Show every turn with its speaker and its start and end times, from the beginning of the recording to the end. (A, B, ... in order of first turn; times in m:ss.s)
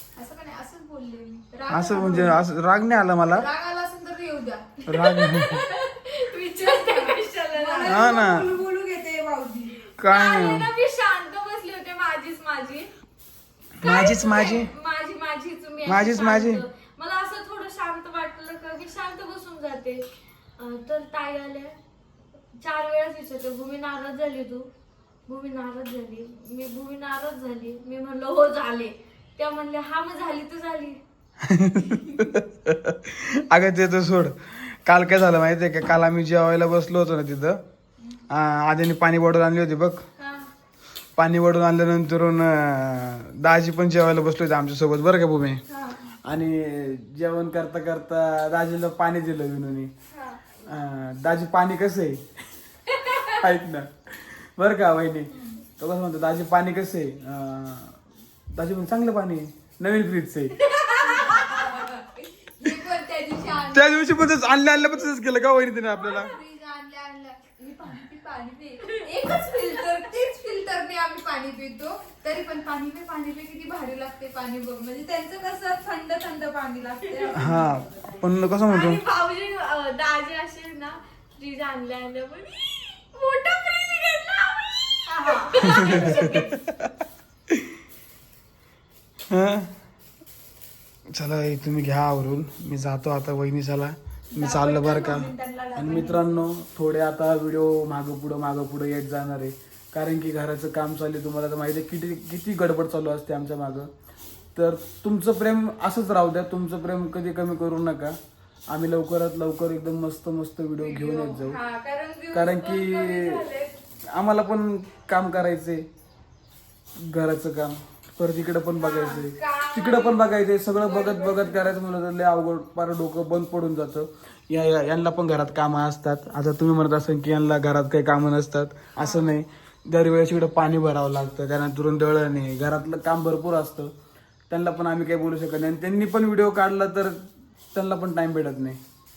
0:00.2-0:02.4 A
0:01.7-0:03.5 B
0:03.4-0:04.8 A
0:04.9-0:05.6 B
0:04.9-0:08.1 C
0:06.6-0:09.8 A
0:07.9-0:08.5 B
0:09.9-0:12.9 C
0:10.0-0:10.7 B
0:13.8-0:14.7 B
0:13.8-0:21.8 C
0:15.8-0:16.6 B
0:22.6-0:24.7 C
0:25.3-0:31.0 C
0:31.4-0:37.6 B
0:38.3-0:40.0 B
0:40.2-0:40.5 C
0:41.2-0:45.6 B
0:46.2-0:49.9 B
0:50.7-0:52.2 B
0:53.2-0:58.0 B
0:58.5-1:00.7 B
1:00.8-1:01.4 C
1:01.0-1:04.0 A
1:03.7-1:06.3 B
1:05.9-1:18.3 A
1:17.3-1:19.0 B
1:18.6-1:26.5 C
1:25.1-1:26.3 A
1:25.7-1:26.6 B
1:29.3-1:29.7 B
1:31.1-1:43.9 B
1:34.3-1:36.2 A
1:44.6-1:48.2 B
1:48.7-1:51.6 B
1:50.8-1:53.8 C
1:52.3-1:53.4 B
1:54.1-1:55.9 B
1:57.0-2:13.9 B
1:58.8-2:00.2 C
2:00.8-2:01.6 C
2:14.5-2:17.2 B
2:17.7-2:18.8 B